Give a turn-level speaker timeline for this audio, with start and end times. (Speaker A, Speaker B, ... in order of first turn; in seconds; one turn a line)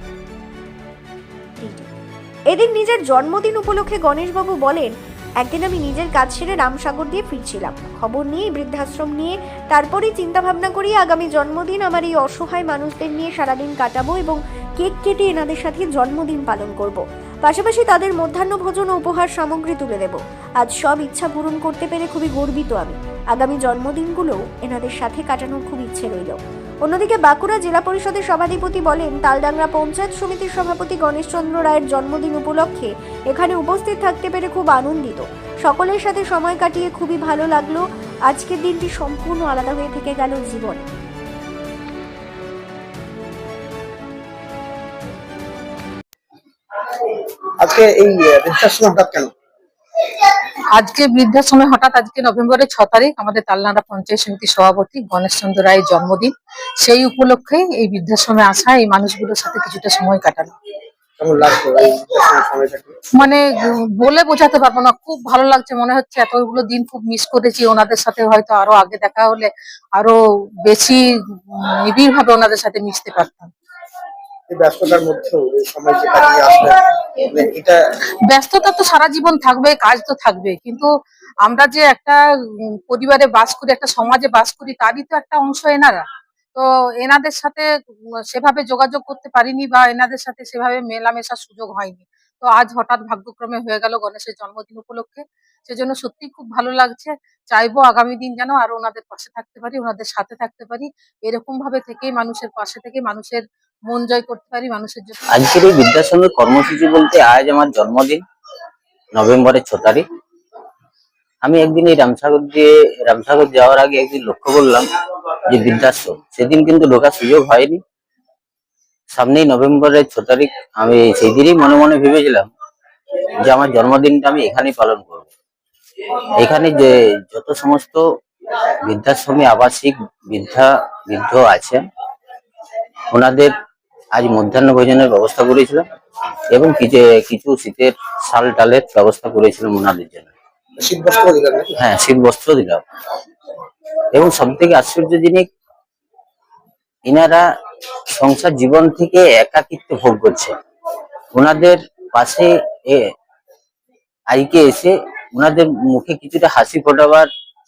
Speaker A: 1.6-1.9
Speaker A: 2.5-40.9
Speaker B: 47.6-49.3
Speaker C: 50.8-56.3
Speaker C: 56.8-60.5
Speaker B: 61.2-63.0
Speaker C: 63.2-73.5
Speaker B: 74.5-77.8
Speaker C: 78.3-80.9
Speaker C: 81.5-86.0
Speaker C: 86.5-87.7
Speaker C: 88.3-105.2
Speaker D: 105.3-108.2
Speaker D: 109.2-110.0
Speaker D: 111.4-114.9
Speaker D: 115.5-117.8
Speaker D: 119.1-122.5
Speaker D: 123.4-125.3
Speaker D: 126.4-128.0
Speaker D: 128.5-131.8
Speaker D: 133.1-133.5
Speaker D: 134.2-135.8
Speaker D: 136.5-140.3
Speaker B: 140.8-141.7
Speaker D: 141.8-142.8
Speaker D: 144.1-145.5
Speaker D: 147.1-147.4
Speaker D: 148.2-150.5
Speaker D: 151.3-153.1
Speaker D: 154.3-157.3